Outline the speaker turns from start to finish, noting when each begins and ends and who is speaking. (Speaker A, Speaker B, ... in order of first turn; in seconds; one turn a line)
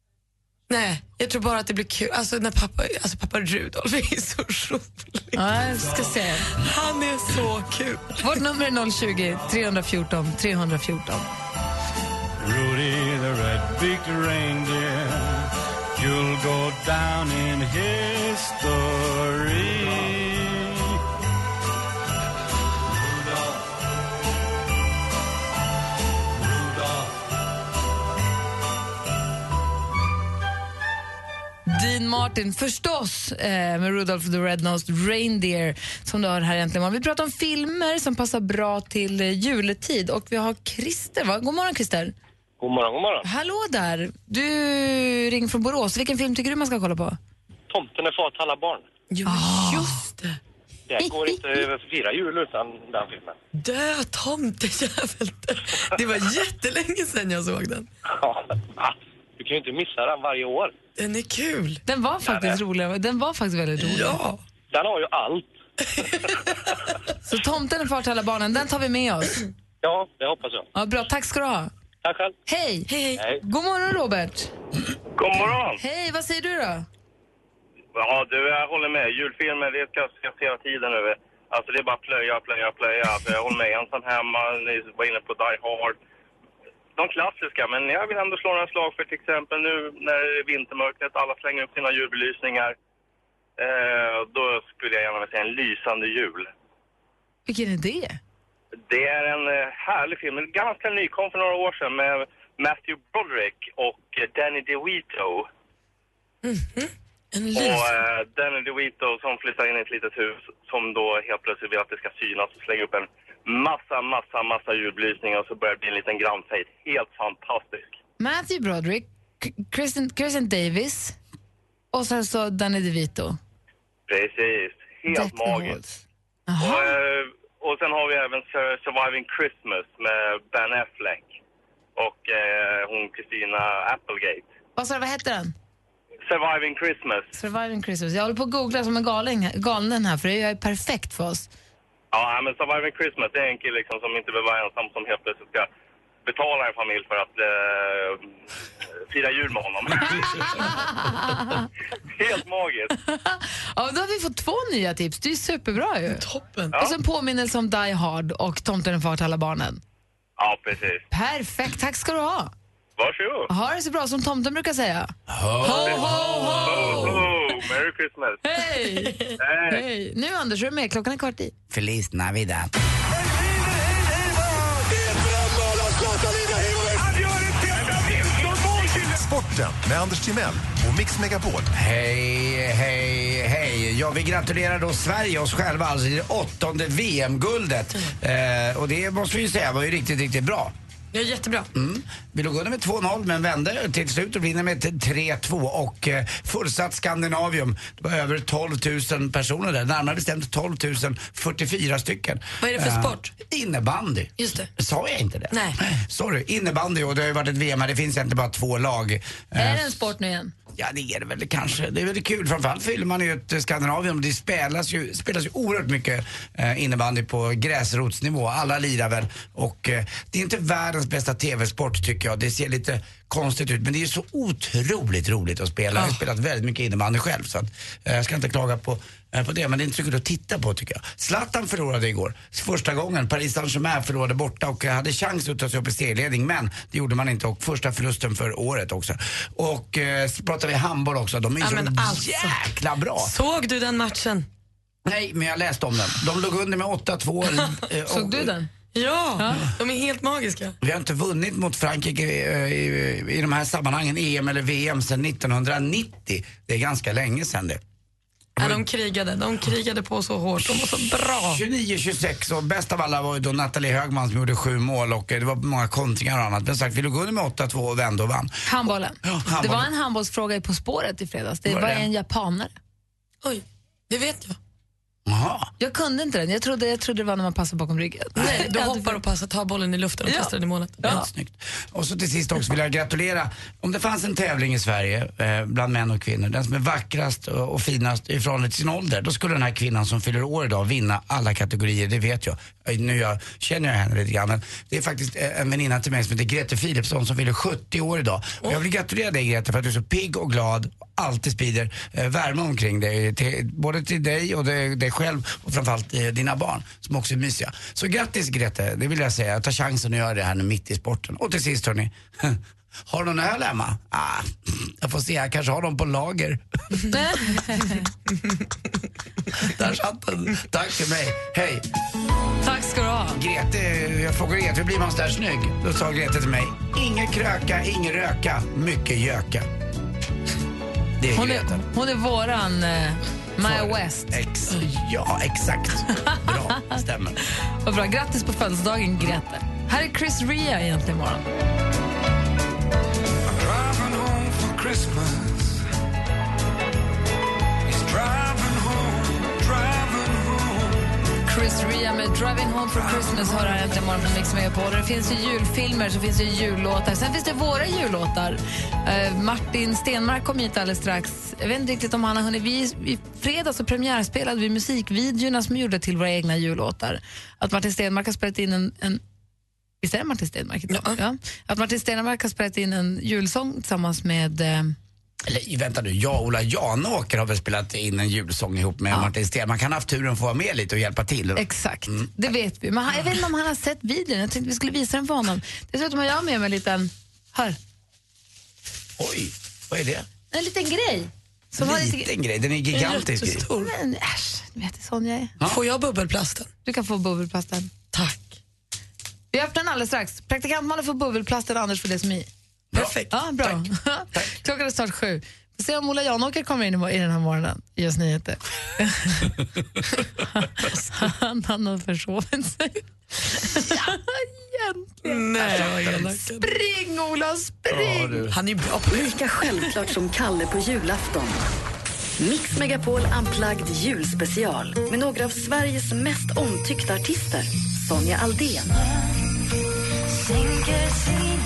Speaker A: 0.7-5.4
Speaker B: 5.3-6.5
Speaker A: 6.5-8.3
Speaker B: 8.2-11.3
Speaker C: 12.4-21.0
Speaker C: 26.6-27.0
Speaker B: 31.7-42.1
Speaker D: 42.6-43.3
Speaker B: 43.2-47.2
Speaker D: 47.7-48.9
Speaker A: 49.1-50.4
Speaker B: 49.2-50.0
Speaker D: 50.9-53.4
Speaker B: 51.0-51.6
Speaker A: 53.5-57.9
Speaker D: 58.1-60.7
Speaker A: 61.0-61.8
Speaker B: 61.9-64.2
Speaker D: 62.3-62.6
Speaker A: 63.8-64.4
Speaker D: 64.7-65.5
Speaker A: 65.8-66.5
Speaker B: 67.2-69.4
Speaker D: 69.8-70.7
Speaker B: 70.7-71.7
Speaker D: 72.0-72.3
Speaker B: 72.5-74.5
Speaker A: 72.9-73.2
Speaker E: 75.2-75.8
Speaker B: 75.8-76.8
Speaker E: 77.9-86.0
Speaker E: 87.0-92.7
Speaker E: 93.6-96.5
Speaker B: 97.5-98.2
Speaker E: 98.9-105.5
Speaker A: 106.4-107.9
Speaker E: 107.5-117.9
Speaker B: 118.2-121.2
Speaker B: 121.9-123.4
Speaker E: 124.1-125.8
Speaker B: 125.1-126.9
Speaker E: 126.6-131.2
Speaker E: 131.9-134.5
Speaker B: 134.8-135.5
Speaker E: 136.3-137.3
Speaker B: 137.3-141.5
Speaker E: 142.1-145.7
Speaker E: 146.2-148.2
Speaker E: 149.1-150.8
Speaker B: 150.0-151.7
Speaker E: 152.1-152.9
Speaker B: 152.9-159.8
Speaker A: 156.1-156.8
Speaker E: 160.4-161.0
Speaker B: 161.1-162.5
Speaker E: 163.0-163.5
Speaker B: 163.5-167.3
Speaker F: 165.3-166.1
Speaker A: 165.6-167.0
Speaker E: 166.6-168.4
Speaker B: 168.4-171.5
Speaker A: 168.9-169.3
Speaker E: 169.4-169.8
Speaker F: 171.7-172.7
Speaker G: 175.8-181.7
Speaker F: 181.7-190.7
Speaker A: 191.1-191.7
Speaker F: 191.7-210.0
Speaker A: 202.6-203.3
Speaker A: 204.4-204.7
Speaker A: 205.5-205.8
Speaker B: 209.6-210.5
Speaker F: 210.8-243.3
Speaker A: 225.9-226.2
Speaker A: 241.6-242.6
Speaker A: 243.2-244.4
Speaker F: 245.1-248.5
Speaker B: 248.1-248.7
Speaker A: 248.9-250.8
Speaker B: 249.4-249.7
Speaker F: 250.8-257.8
Speaker F: 258.6-258.8
Speaker A: 258.6-261.6
Speaker F: 261.5-268.6
Speaker B: 268.6-272.7
Speaker F: 269.2-269.9
Speaker F: 271.6-272.1
Speaker A: 273.4-274.6
Speaker F: 275.2-275.7
Speaker B: 275.8-279.2
Speaker A: 278.4-281.2
Speaker B: 280.2-281.3
Speaker F: 281.0-317.0
Speaker B: 317.1-318.1
Speaker F: 319.6-321.8
Speaker B: 322.6-323.4
Speaker F: 323.3-329.7
Speaker F: 331.2-331.8
Speaker B: 331.3-334.3
Speaker F: 333.6-337.4
Speaker B: 336.1-337.0
Speaker B: 337.8-341.4
Speaker C: 343.5-345.8
Speaker C: 347.8-351.1
Speaker B: 351.4-369.2
Speaker C: 352.9-353.8
Speaker B: 370.0-374.9
Speaker A: 370.9-371.2
Speaker F: 375.4-382.3
Speaker B: 381.6-387.8
Speaker F: 389.2-390.3
Speaker B: 390.5-392.3
Speaker F: 391.8-393.7
Speaker A: 392.9-393.9
Speaker B: 393.7-395.6
Speaker A: 395.6-396.7
Speaker B: 396.8-397.9
Speaker A: 398.1-398.6
Speaker B: 399.5-402.5
Speaker A: 402.9-403.4
Speaker F: 402.9-404.5
Speaker B: 403.3-409.6
Speaker B: 410.4-418.5
Speaker A: 415.2-416.7
Speaker F: 415.6-416.2
Speaker F: 417.9-418.6
Speaker A: 418.5-419.4
Speaker H: 419.1-421.6
Speaker H: 422.4-429.1